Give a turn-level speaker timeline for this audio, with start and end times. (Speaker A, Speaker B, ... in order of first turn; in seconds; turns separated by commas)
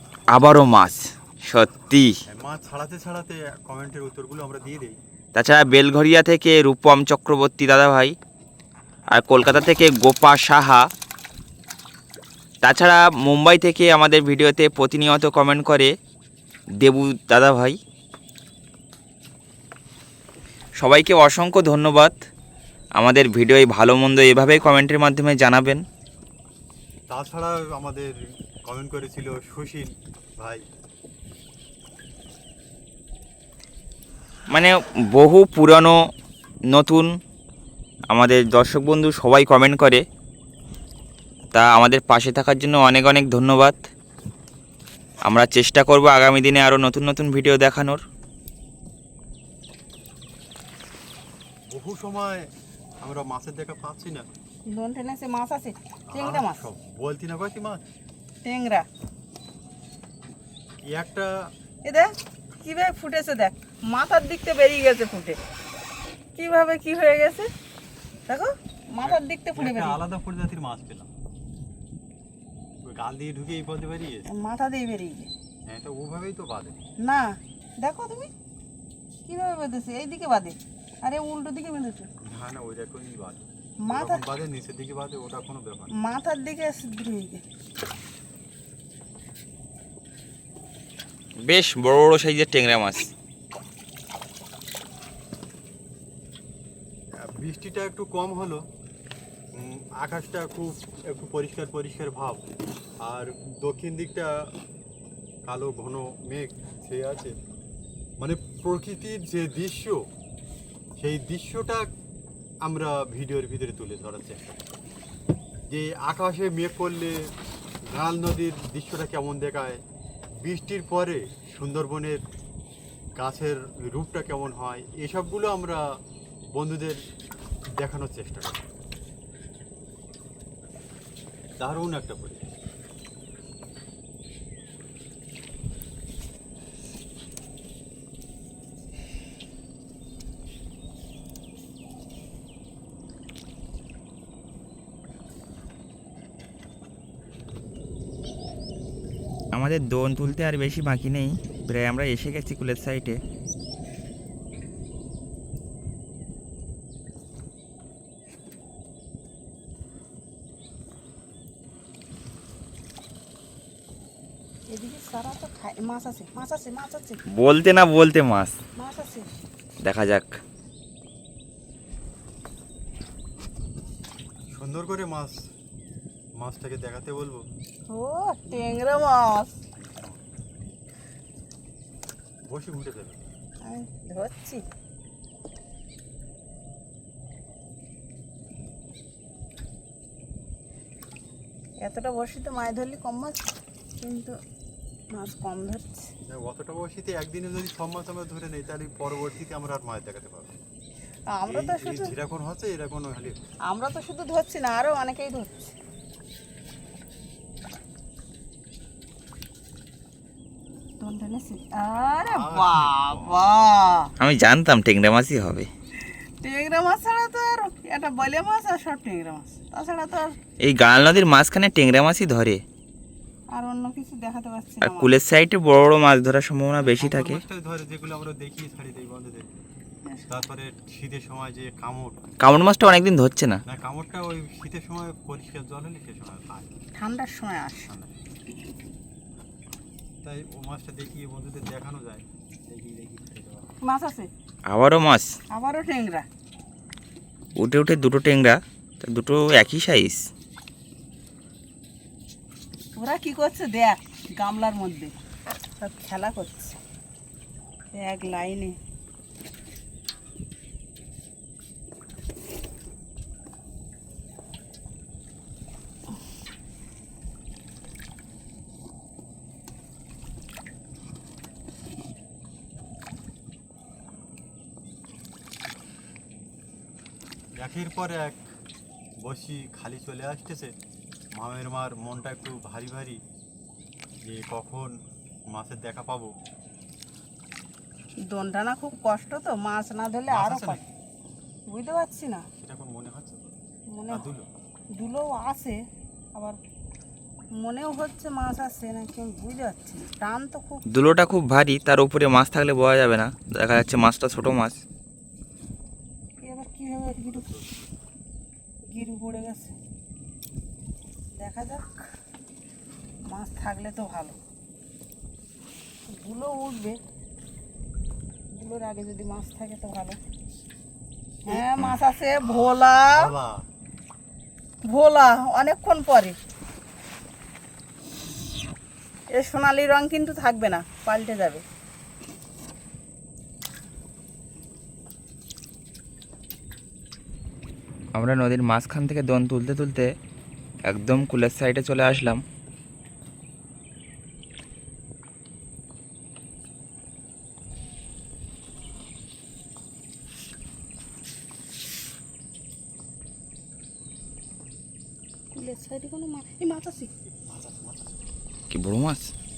Speaker A: 0.3-2.1, Speaker B: 2.3-5.0, Speaker A: 5.3-8.2, Speaker A: 9.1-10.9, Speaker A: 12.6-15.9, Speaker A: 16.8-17.8, Speaker A: 20.8-22.1, Speaker A: 23.0-25.8, Speaker B: 27.1-28.1, Speaker B: 28.6-30.7, Speaker A: 34.5-36.0, Speaker A: 36.7-37.1, Speaker A: 38.1-40.0, Speaker A: 41.5-43.8, Speaker A: 45.3-48.0, Speaker B: 51.7-52.4, Speaker B: 53.0-54.3, Speaker C: 54.7-56.6, Speaker B: 56.1-57.8, Speaker C: 58.4-58.9, Speaker B: 60.9-61.3, Speaker C: 61.9-65.4, Speaker C: 66.4-67.5, Speaker C: 68.3-70.0, Speaker B: 69.0-71.1, Speaker B: 72.8-74.3, Speaker C: 74.3-75.3, Speaker B: 75.7-76.8, Speaker C: 77.0-78.3, Speaker C: 79.3-82.1, Speaker B: 82.2-85.9, Speaker C: 83.8-84.2, Speaker C: 86.0-87.4, Speaker A: 91.5-93.1, Speaker B: 97.3-98.6, Speaker B: 99.5-102.4, Speaker B: 103.0-104.5, Speaker B: 105.5-107.3, Speaker B: 108.2-110.0, Speaker B: 111.0-111.9, Speaker B: 112.7-114.6, Speaker B: 115.7-117.2, Speaker B: 117.9-119.8, Speaker B: 120.4-122.2, Speaker B: 123.2-125.8, Speaker B: 126.5-127.0, Speaker B: 127.8-128.6, Speaker B: 131.6-132.5, Speaker A: 149.5-153.2, Speaker C: 164.7-167.2, Speaker A: 167.3-168.6, Speaker C: 168.8-169.3, Speaker A: 169.8-170.3, Speaker B: 174.5-175.5, Speaker B: 176.4-177.4, Speaker C: 177.9-179.5, Speaker B: 179.8-180.2, Speaker B: 182.5-183.2, Speaker C: 183.7-184.6, Speaker C: 191.8-193.4, Speaker C: 194.0-194.3, Speaker C: 195.1-196.1, Speaker B: 196.3-200.6, Speaker C: 201.3-202.1, Speaker B: 201.5-203.4, Speaker C: 203.7-205.7, Speaker C: 211.0-214.1, Speaker B: 212.2-213.5, Speaker A: 214.2-215.7, Speaker C: 216.4-220.4, Speaker A: 220.6-222.6, Speaker C: 223.5-225.2, Speaker A: 224.8-227.4, Speaker B: 226.8-229.5, Speaker B: 230.3-232.2, Speaker A: 232.4-233.6, Speaker B: 233.7-236.8, Speaker C: 237.0-237.9, Speaker B: 237.9-238.2, Speaker B: 240.2-243.7, Speaker C: 243.8-244.3, Speaker A: 244.7-245.3, Speaker C: 245.5-246.3, Speaker A: 247.6-250.2, Speaker C: 253.0-255.1, Speaker C: 255.8-256.8, Speaker C: 257.9-258.8, Speaker B: 277.6-278.4, Speaker B: 279.2-280.7, Speaker B: 281.4-283.2, Speaker B: 284.3-285.0, Speaker B: 285.5-286.3, Speaker C: 288.3-290.8, Speaker B: 290.3-290.9, Speaker C: 291.7-292.5, Speaker B: 292.6-293.5, Speaker C: 293.9-294.3, Speaker B: 294.1-294.5, Speaker C: 295.0-295.8, Speaker C: 297.6-300.8, Speaker A: 300.9-304.8, Speaker C: 306.4-307.5, Speaker B: 307.3-307.7, Speaker C: 308.9-309.8, Speaker C: 311.4-311.9, Speaker C: 313.3-314.4, Speaker C: 316.1-317.0, Speaker C: 318.5-320.2, Speaker B: 321.5-321.7, Speaker C: 321.5-323.3, Speaker B: 323.1-323.6, Speaker C: 324.9-326.4, Speaker C: 329.3-331.6, Speaker A: 338.2-340.1, Speaker A: 340.9-342.4, Speaker C: 355.5-357.1, Speaker B: 357.4-358.3, Speaker A: 358.7-359.3